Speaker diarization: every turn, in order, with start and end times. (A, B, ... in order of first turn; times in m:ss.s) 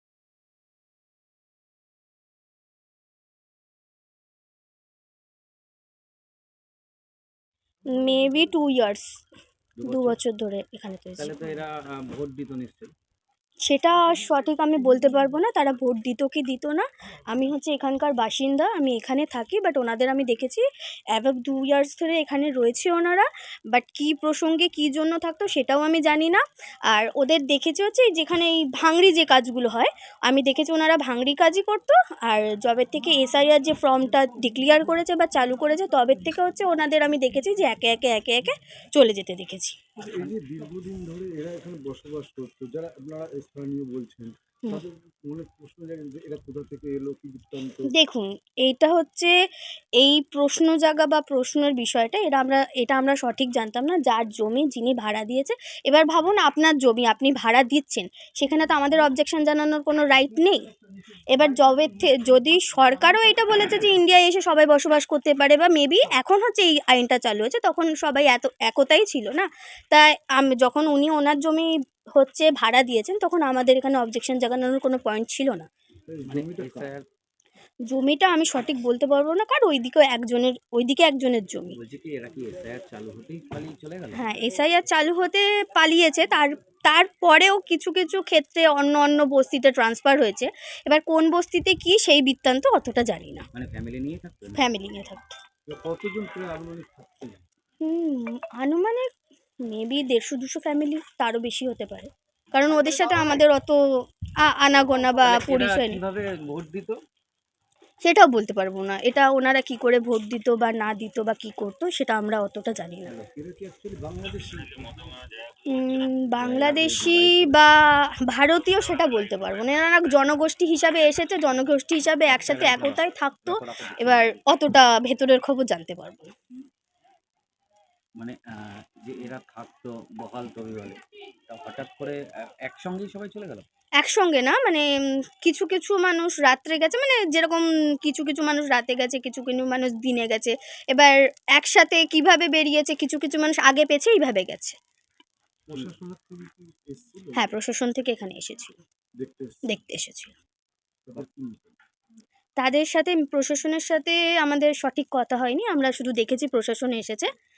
0:07.9-0:09.1 A
0:09.8-0:10.2 B
0:09.8-0:11.3 A
0:11.2-0:12.9 B
0:13.6-0:39.8 A
0:40.0-0:47.9 C
0:47.9-0:49.3 A
0:50.0-1:00.6 A
1:01.3-1:15.7 A
1:16.1-1:16.9 C
1:16.3-1:17.0 B
1:17.9-1:21.8 A
1:21.7-1:24.3 B
1:24.1-1:33.4 A
1:33.5-1:34.6 B
1:34.6-1:35.3 A
1:35.7-1:36.2 C
1:35.8-1:37.4 B
1:37.8-1:39.1 A
1:39.6-1:43.8 A
1:44.4-1:46.0 A
1:45.2-1:47.0 B
1:48.0-1:53.1 A
1:53.1-1:53.4 B
1:53.4-1:54.9 C
1:55.7-1:57.7 A
1:56.4-1:57.6 B
1:58.3-2:06.3 A
2:02.3-2:04.4 B
2:08.2-2:13.7 B
2:14.0-2:14.8 A
2:15.4-2:24.8 A
2:25.7-2:27.4 C
2:27.4-2:28.8 A
2:29.2-2:29.6 C
2:29.7-2:30.3 A
2:31.1-2:31.6 C
2:32.6-2:37.3 A